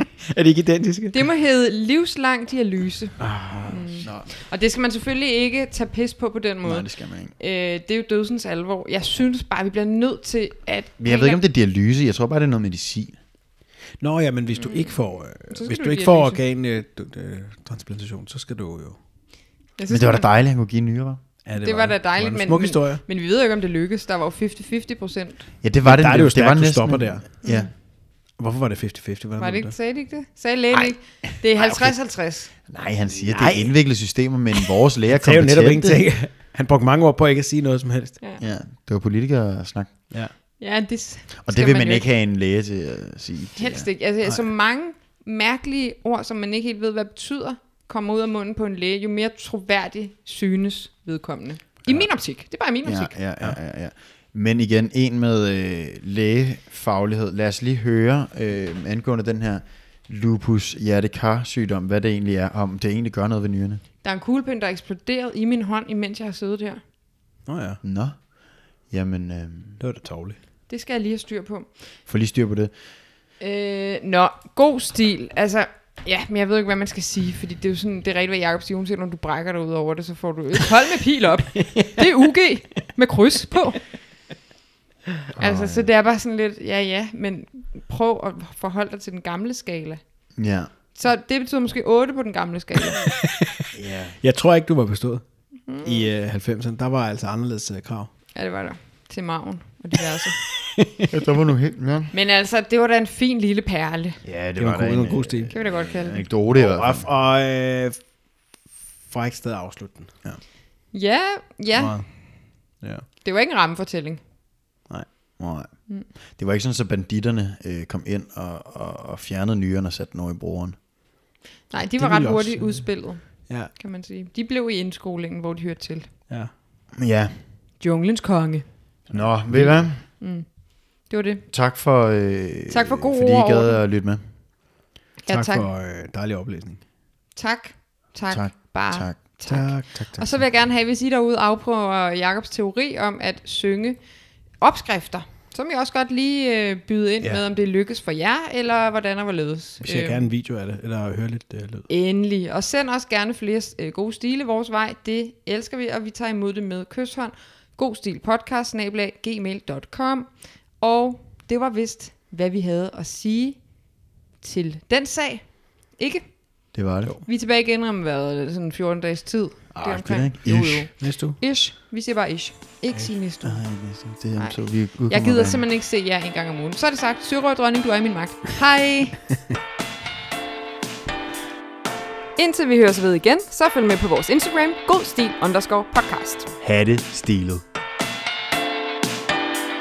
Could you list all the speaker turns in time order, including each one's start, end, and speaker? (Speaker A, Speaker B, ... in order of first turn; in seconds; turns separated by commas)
Speaker A: 0.2-1.2, Speaker B: 1.1-11.4, Speaker A: 3.2-4.1, Speaker C: 4.0-4.3, Speaker C: 6.7-7.3, Speaker C: 11.0-13.2, Speaker A: 14.0-19.0, Speaker B: 14.6-16.4, Speaker B: 19.8-20.3, Speaker C: 19.9-21.2, Speaker A: 21.4-23.0, Speaker B: 21.6-25.5, Speaker C: 25.6-27.7, Speaker A: 25.8-27.3, Speaker B: 27.4-27.7, Speaker A: 28.4-29.8, Speaker B: 29.4-32.5, Speaker C: 31.4-32.0, Speaker C: 32.6-36.0, Speaker A: 33.3-33.8, Speaker A: 35.1-38.2, Speaker C: 38.4-39.9, Speaker B: 40.6-42.1, Speaker C: 41.5-43.9, Speaker B: 43.6-53.2, Speaker C: 52.8-63.8, Speaker B: 64.0-66.8, Speaker A: 67.5-67.8, Speaker C: 67.8-69.8, Speaker A: 69.8-70.4, Speaker B: 70.7-71.7, Speaker C: 72.1-72.7, Speaker B: 73.4-83.8, Speaker A: 81.7-82.0, Speaker C: 85.4-85.9, Speaker B: 85.4-90.0, Speaker C: 90.4-90.7, Speaker B: 90.9-93.1, Speaker A: 93.2-93.7, Speaker C: 93.7-94.2, Speaker A: 94.2-95.2, Speaker B: 95.7-96.1, Speaker A: 95.8-98.1, Speaker B: 98.3-100.4, Speaker A: 100.6-101.0, Speaker C: 101.1-102.1, Speaker B: 102.1-104.2, Speaker C: 104.2-107.1, Speaker A: 104.6-105.5, Speaker B: 105.5-106.3, Speaker A: 106.5-108.0, Speaker A: 109.1-110.4, Speaker B: 110.9-112.2, Speaker A: 111.8-112.1, Speaker A: 112.8-113.1, Speaker B: 113.2-114.2, Speaker A: 114.9-115.4, Speaker C: 115.4-115.7, Speaker C: 116.3-120.8, Speaker B: 121.7-126.1, Speaker A: 122.0-123.7, Speaker C: 126.9-127.4, Speaker B: 127.8-128.7, Speaker C: 129.1-130.0, Speaker A: 129.1-129.9, Speaker B: 130.2-131.4, Speaker C: 131.5-134.2, Speaker B: 132.7-133.8, Speaker B: 135.2-135.7, Speaker A: 135.3-136.8, Speaker B: 137.3-144.0, Speaker C: 138.3-139.2, Speaker A: 139.5-140.4, Speaker B: 144.6-150.2, Speaker A: 149.8-151.9, Speaker B: 151.9-163.7, Speaker B: 164.4-166.7, Speaker C: 166.7-167.2, Speaker B: 167.3-173.7, Speaker C: 169.7-170.9, Speaker A: 171.0-171.4, Speaker C: 173.4-175.6, Speaker B: 174.4-179.3, Speaker B: 182.4-186.6, Speaker C: 186.6-187.6